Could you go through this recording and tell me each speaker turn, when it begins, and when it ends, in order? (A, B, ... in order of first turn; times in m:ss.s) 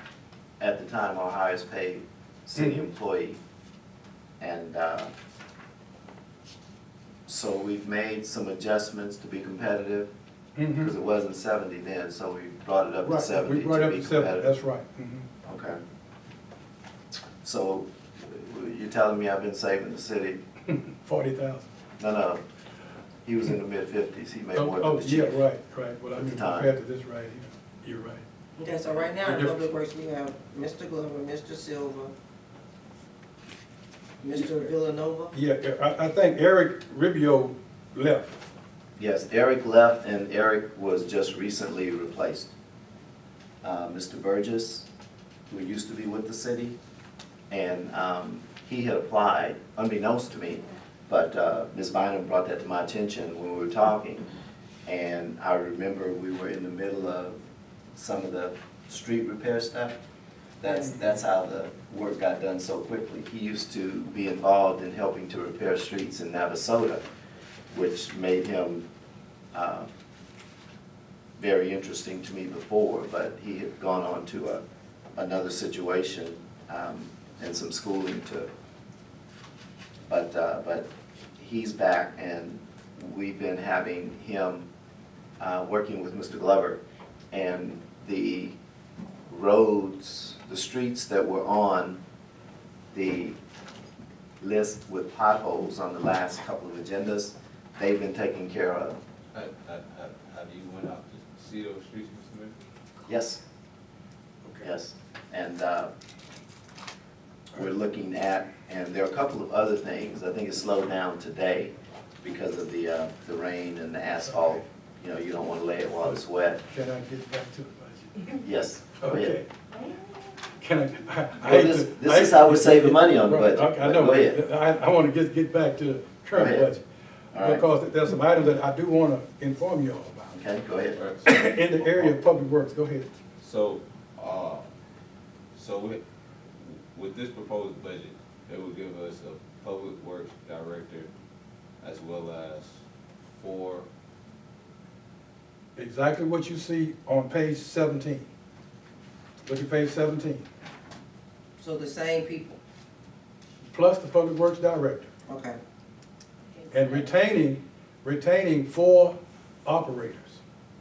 0:00.6-0:03.4 A
0:02.6-0:02.8 B
0:04.4-0:05.1 A
0:07.2-0:10.1 A
0:10.6-0:10.9 B
0:10.8-0:14.5 A
0:13.0-0:15.3 B
0:15.4-0:15.8 A
0:17.4-0:20.4 A
0:20.7-0:21.7 B
0:22.0-0:22.4 A
0:23.2-0:25.4 A
0:24.5-0:28.2 B
0:26.1-0:26.7 A
0:28.6-0:32.1 C
0:29.2-0:29.6 B
0:34.2-0:35.3 C
0:35.3-0:38.4 B
0:39.0-0:42.5 A
0:43.6-0:44.9 A
0:45.5-0:46.8 A
0:47.5-0:54.2 A
0:54.8-0:57.4 A
0:57.9-1:00.0 A
1:00.6-1:07.0 A
1:07.7-1:08.8 A
1:09.5-1:09.9 A
1:11.4-1:14.6 A
1:15.2-1:18.5 A
1:20.1-1:24.7 A
1:25.4-1:26.8 A
1:27.3-1:28.6 A
1:29.3-1:32.0 A
1:32.9-1:33.4 A
1:34.4-1:39.0 A
1:39.3-1:42.5 D
1:43.0-1:43.4 A
1:44.6-1:45.9 A
1:47.5-1:56.6 A
1:54.3-1:54.6 B
1:56.0-1:58.4 B
1:58.4-1:59.4 A
1:59.0-1:59.5 B
2:00.6-2:06.8 B
2:01.4-2:04.4 A
2:06.3-2:06.7 A
2:07.3-2:07.6 A
2:07.4-2:10.4 B
2:10.3-2:11.0 A
2:10.9-2:12.1 D
2:11.2-2:13.1 B
2:13.4-2:14.6 D
2:15.5-2:21.1 D
2:21.8-2:22.8 D
2:23.3-2:23.9 D
2:25.8-2:28.3 B
2:29.4-2:30.4 B
2:31.6-2:32.6 C
2:33.7-2:35.1 B
2:35.3-2:35.6 C
2:36.6-2:37.1 C
2:36.7-2:40.4 B